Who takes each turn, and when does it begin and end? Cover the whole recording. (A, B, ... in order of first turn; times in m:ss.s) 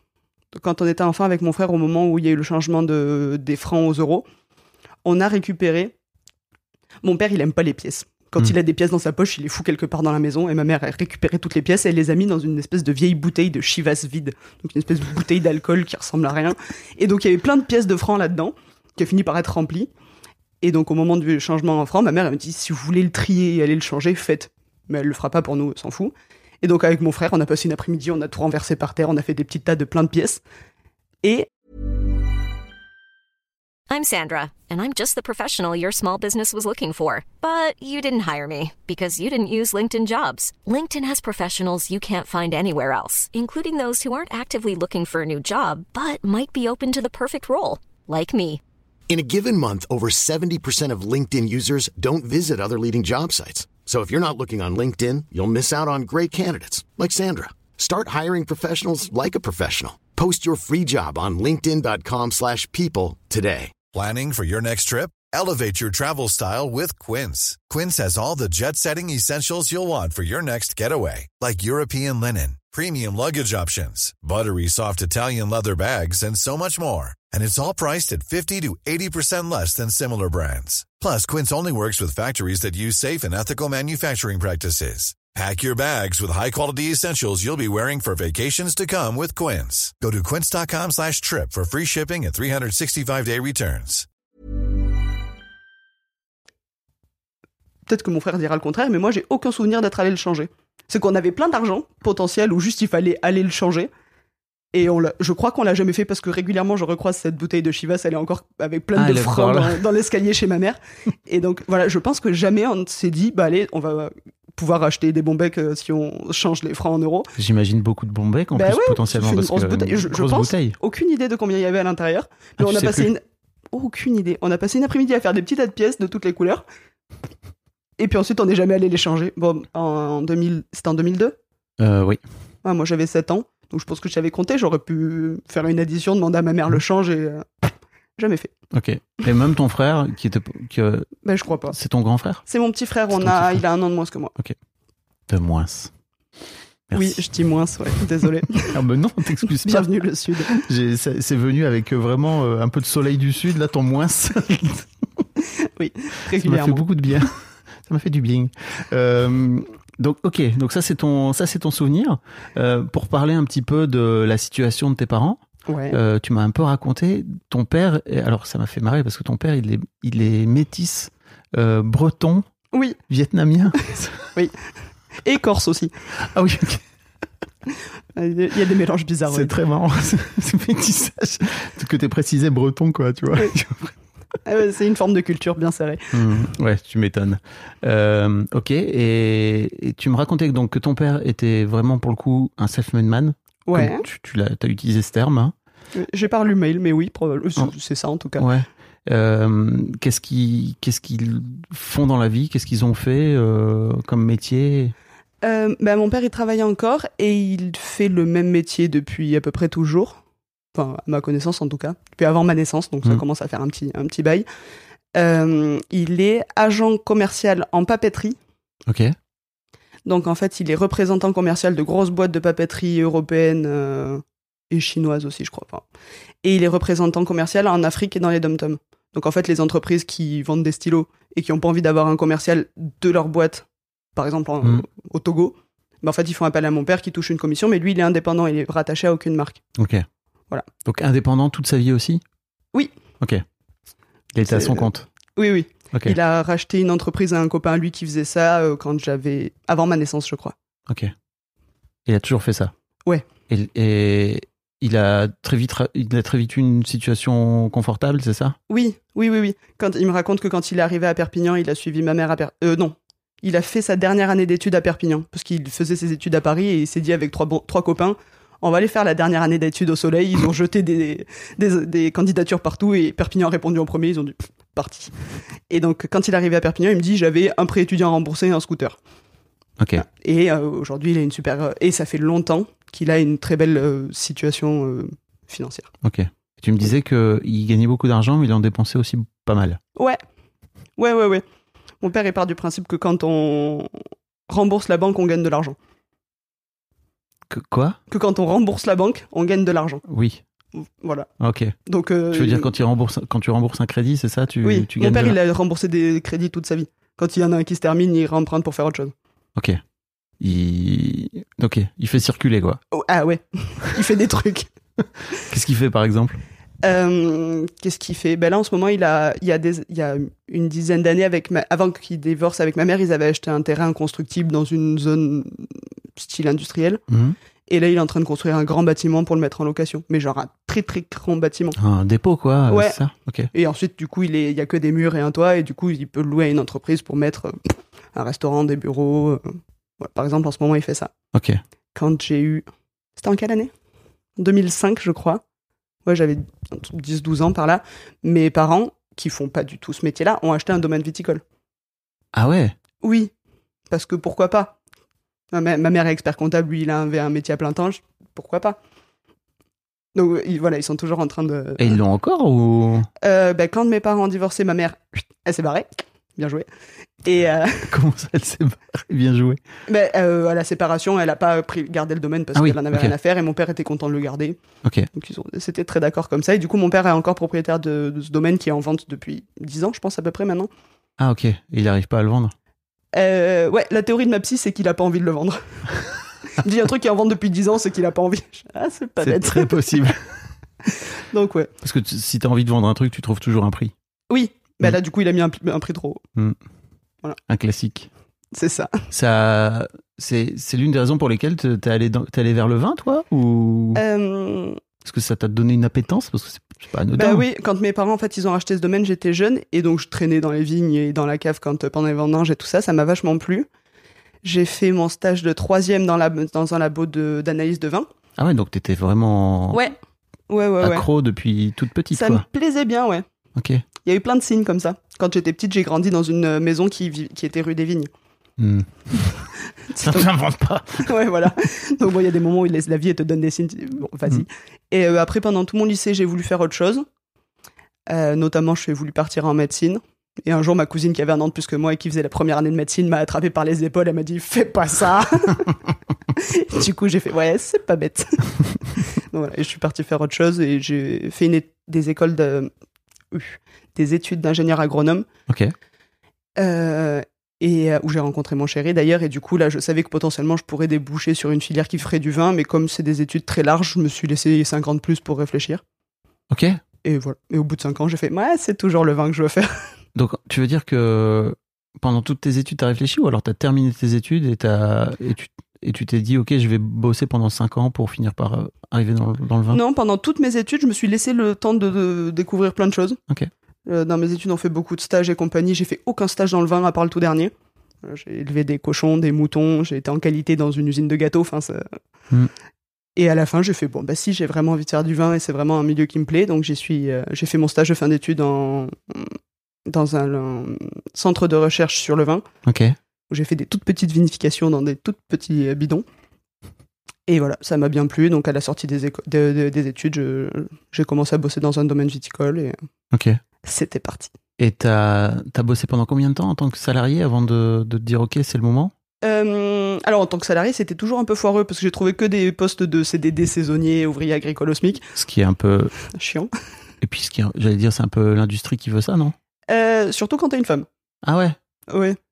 0:00.5-0:04.3 A
0:05.0-0:05.9 A
0:07.0-0:19.9 A
0:20.6-0:30.4 A
0:31.2-0:31.5 A
0:33.9-0:48.6 B
0:49.1-1:03.7 C
1:03.9-1:34.1 D
1:37.9-1:43.9 A
1:44.7-1:57.3 A
1:49.0-1:49.8 E
1:57.4-2:00.8 E
1:58.6-2:06.6 A
2:02.6-2:03.1 E
2:08.0-2:11.4 A
2:11.8-2:12.2 E
2:12.6-2:17.5 A
2:18.2-2:18.5 A
2:18.7-2:21.1 E
2:21.2-2:21.8 A
2:21.7-2:22.4 E
2:22.5-2:24.3 A
2:23.1-2:23.6 E
2:25.3-2:25.9 E
2:26.9-2:27.2 E
2:26.9-2:28.8 A
2:28.2-2:29.9 E
2:29.6-2:30.5 A
2:30.4-2:35.2 E
2:35.6-2:36.8 A
2:36.4-2:45.4 E
2:45.7-2:46.0 A
2:45.9-2:52.5 E
2:52.7-2:53.0 A
2:53.1-2:54.3 E
2:55.2-2:55.9 A
2:56.2-2:56.8 E
2:57.7-2:59.5 A
2:59.3-3:03.9 E
3:04.4-3:06.2 A
3:06.1-3:15.5 E
3:13.7-3:14.0 A
3:16.0-3:18.5 A
3:18.4-3:24.9 E
3:25.4-3:30.2 A
3:30.7-3:34.5 A
3:35.1-3:38.4 A
3:38.9-3:39.2 E
3:40.1-3:45.8 A
3:46.4-3:59.6 A
3:59.8-4:00.1 E
4:00.8-4:02.2 E
4:04.3-4:05.1 E
4:04.5-4:10.6 A
4:10.9-4:11.1 E
4:12.1-4:12.7 E
4:13.5-4:18.6 E
4:18.7-4:35.1 A
4:35.7-4:39.0 A
4:39.8-4:40.0 E
4:40.0-4:45.9 A
4:46.0-4:49.8 E
4:51.0-4:51.4 A
4:52.0-4:53.9 A
4:54.5-4:55.8 A
4:57.5-4:58.0 E
4:58.1-5:00.0 A
5:00.1-5:00.4 E
5:00.8-5:01.3 A
5:01.4-5:01.8 E
5:01.9-5:02.7 A
5:02.3-5:05.4 E
5:04.6-5:09.1 A
5:10.4-5:12.8 E
5:12.9-5:14.7 A
5:15.4-5:16.4 E
5:16.8-5:27.0 A
5:27.1-5:27.4 E
5:27.7-5:31.8 A
5:31.8-5:33.5 E
5:32.7-5:33.0 A
5:33.5-5:39.4 A
5:40.0-5:41.1 A
5:41.3-5:41.6 E
5:42.0-5:42.7 A
5:43.2-5:43.7 A
5:44.4-5:45.4 A
5:46.0-5:51.4 A
5:52.3-5:52.8 E
5:53.0-5:53.3 A
5:53.9-5:54.8 A
5:55.5-5:58.8 A
6:00.2-6:02.0 A
6:01.8-6:03.1 E
6:03.2-6:06.7 A
6:07.2-6:07.9 A
6:07.9-6:09.6 E
6:09.9-6:14.6 A
6:12.6-6:13.1 E
6:14.8-6:15.1 E
6:15.1-6:20.7 A
6:21.2-6:22.5 E
6:23.1-6:25.6 A
6:26.5-6:29.8 A
6:29.2-6:30.2 E
6:31.3-6:31.7 A
6:31.8-6:33.9 E
6:34.3-6:36.2 A
6:37.5-6:38.1 E
6:38.5-6:39.0 A
6:39.1-6:44.0 E
6:44.0-6:44.8 A
6:45.0-6:47.5 E
6:47.1-6:53.7 A
6:54.4-6:58.1 A
6:58.4-6:59.9 E
7:00.5-7:01.1 A
7:00.8-7:02.4 E
7:02.1-7:03.3 A
7:03.6-7:03.8 E
7:04.0-7:08.1 A
7:08.6-7:09.3 E
7:09.9-7:10.3 A
7:10.0-7:11.2 E
7:11.0-7:17.0 A
7:18.1-7:25.8 A
7:26.3-7:28.6 A
7:29.1-7:32.7 A
7:33.3-7:35.3 A
7:35.5-7:35.7 E
7:36.6-7:45.8 A
7:46.5-7:46.8 E
7:47.0-7:49.7 A
7:50.2-7:59.8 E
7:59.7-8:03.2 A
8:03.9-8:07.5 A
8:08.0-8:11.9 A
8:13.2-8:19.3 A
8:19.9-8:22.4 A
8:22.7-8:23.0 E
8:23.3-8:26.0 A
8:27.3-8:32.8 A
8:33.1-8:33.4 E
8:33.6-8:34.3 A
8:34.6-8:38.9 E
8:39.2-8:45.0 A
8:45.2-8:45.9 E
8:46.1-8:46.5 A
8:47.0-8:49.4 E
8:49.7-8:50.9 A
8:51.2-8:51.6 E
8:51.9-8:52.2 A